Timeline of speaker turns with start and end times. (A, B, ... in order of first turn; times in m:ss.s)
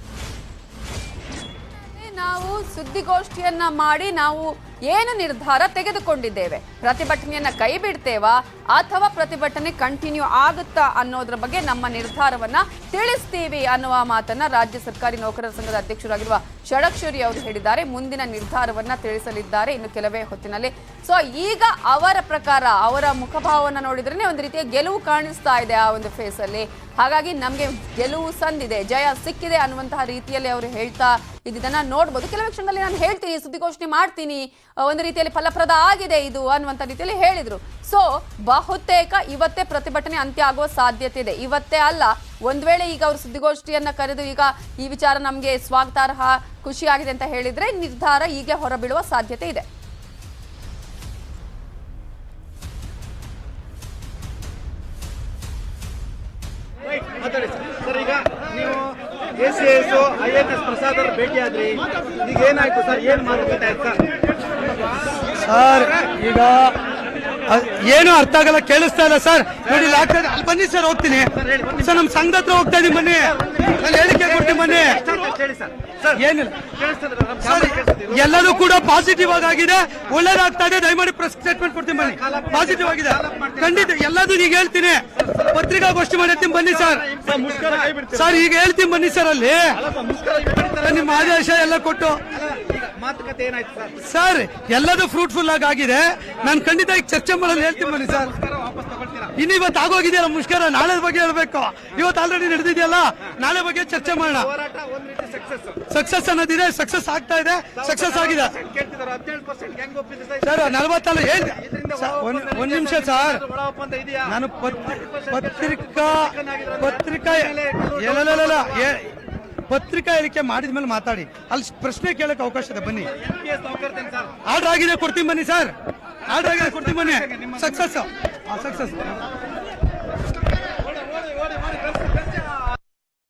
0:01.9-0:49.7 A
0:57.1-1:04.1 B
1:05.4-1:06.8 C
1:07.5-1:15.1 C
1:11.5-1:11.9 B
1:14.2-1:16.2 B
1:16.1-1:16.7 C
1:16.8-1:18.4 B
1:17.4-1:27.1 C
1:22.1-1:23.9 B
1:26.6-1:28.3 B
1:28.1-1:29.8 C
1:29.8-1:31.4 B
1:30.8-1:32.2 C
1:32.3-1:34.0 B
1:34.0-1:38.3 C
1:37.6-1:39.3 B
1:39.4-1:44.5 C
1:44.1-1:45.9 B
1:45.9-1:48.6 C
1:47.8-1:50.6 B
1:50.4-1:53.4 C
1:51.6-1:59.0 B
1:54.2-1:59.1 C
1:59.7-2:03.1 C
2:03.2-2:04.4 B
2:04.4-2:09.2 C
2:06.9-2:07.6 B